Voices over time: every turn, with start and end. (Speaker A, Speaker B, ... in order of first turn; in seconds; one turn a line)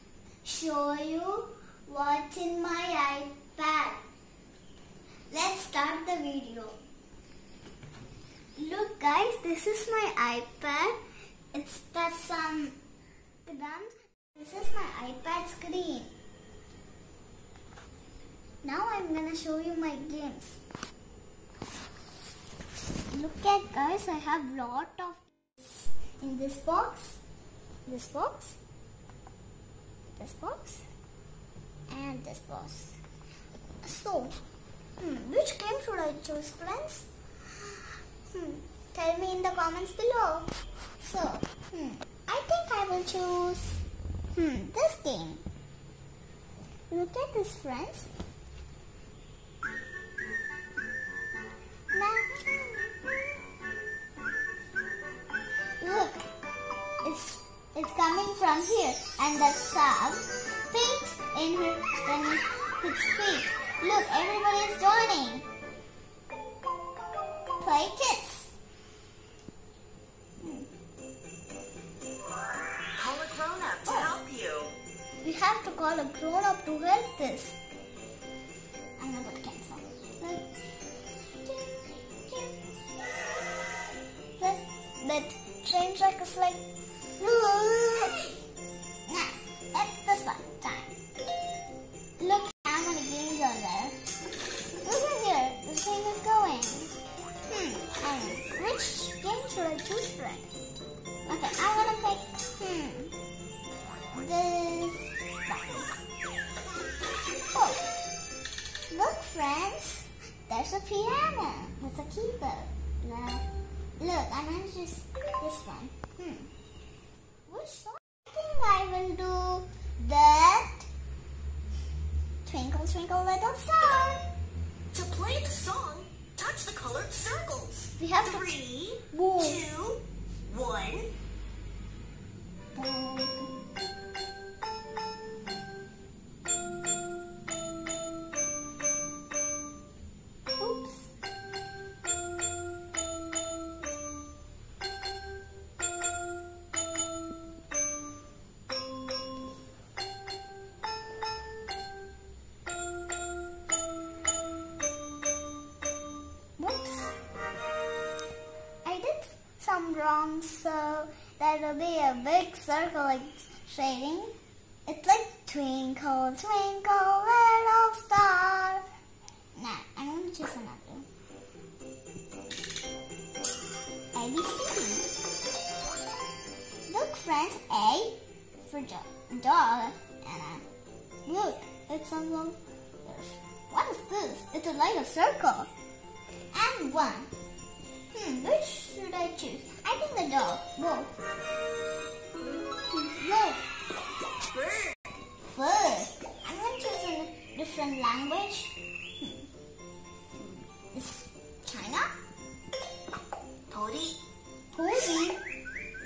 Speaker A: 0.4-4.0
Speaker A: 5.3-6.8
Speaker A: 8.6-11.0
Speaker A: 11.5-12.8
Speaker A: 13.4-16.1
Speaker A: 18.6-20.6
Speaker A: 23.1-27.2
Speaker A: 27.9-28.6
Speaker A: 30.2-30.8
Speaker A: 31.9-33.0
Speaker A: 33.8-34.4
Speaker A: 35.0-43.8
Speaker A: 44.3-45.4
Speaker A: 46.9-48.1
Speaker A: 51.9-53.2
Speaker A: 55.8-56.2
Speaker A: 57.0-65.5
Speaker A: 67.6-68.5
Speaker A: 70.4-70.7
Speaker B: 72.9-74.7
Speaker A: 75.2-77.6
Speaker A: 79.0-80.5
Speaker A: 81.4-82.5
Speaker A: 84.4-86.7
Speaker A: 87.2-88.2
Speaker A: 89.0-91.0
Speaker A: 92.2-94.0
Speaker A: 94.8-97.0
Speaker A: 97.5-100.5
Speaker A: 101.2-103.1
Speaker A: 104.1-106.0
Speaker A: 107.5-107.9
Speaker A: 108.9-113.5
Speaker A: 114.0-116.5
Speaker A: 117.5-120.9
Speaker A: 122.4-124.2
Speaker B: 124.9-131.1
Speaker A: 128.0-128.5
Speaker A: 129.1-129.7
Speaker A: 132.7-133.6
Speaker A: 140.6-141.1
Speaker A: 156.6-157.1
Speaker A: 158.8-164.3
Speaker A: 164.8-168.9
Speaker A: 169.5-171.1
Speaker A: 174.1-175.1
Speaker A: 176.9-180.6
Speaker A: 181.2-185.7
Speaker A: 186.5-187.3
Speaker A: 188.1-191.1
Speaker A: 192.9-193.6
Speaker B: 194.5-194.9
Speaker A: 195.4-199.5
Speaker A: 200.4-202.1
Speaker B: 203.7-204.2
Speaker A: 204.7-205.4